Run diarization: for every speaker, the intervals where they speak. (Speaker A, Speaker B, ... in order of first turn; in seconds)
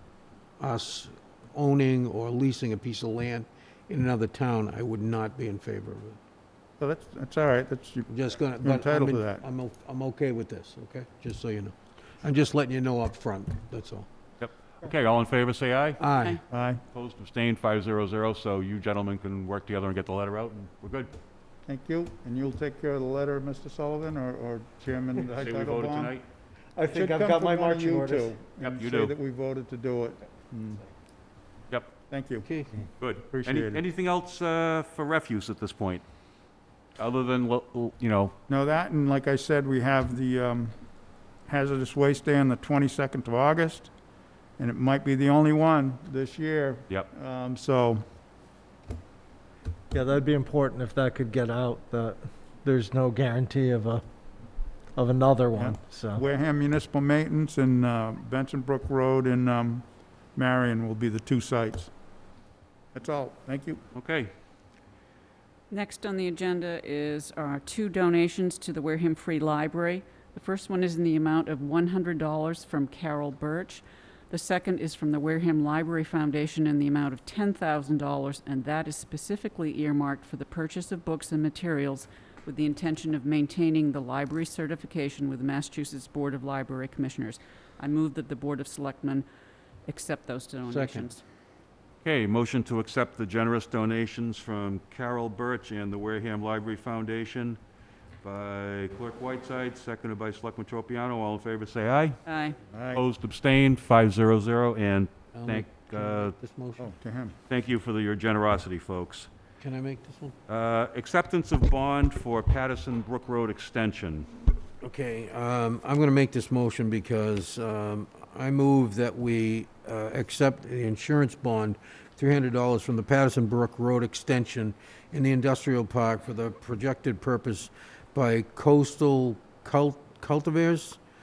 Speaker A: 0.6-6.2, 8.1-14.1, 16.0-16.4, 32.5-32.7, 90.7-91.1, 105.3-106.9, 109.6-110.4, 114.8-131.0
Speaker B: 6.8-9.4, 16.5-16.8, 21.7-26.2, 26.9-30.9, 32.1-32.5, 33.3-33.8, 38.5-40.7, 41.5-43.9, 44.6-48.0, 55.5-61.9, 63.0-63.8, 102.7-103.0, 106.8-107.4
Speaker C: 14.4-16.1, 16.9-21.1, 25.4-26.2, 28.6-29.1, 33.0-36.0, 37.0-38.3, 64.0-64.3, 92.0-97.6, 98.2-102.2, 102.9-106.3, 107.5-109.3, 110.5-114.3
Speaker D: 26.8-28.3, 49.9-54.0, 55.0-56.2
Speaker E: 65.7-89.3, 89.9-91.2, 102.3-102.6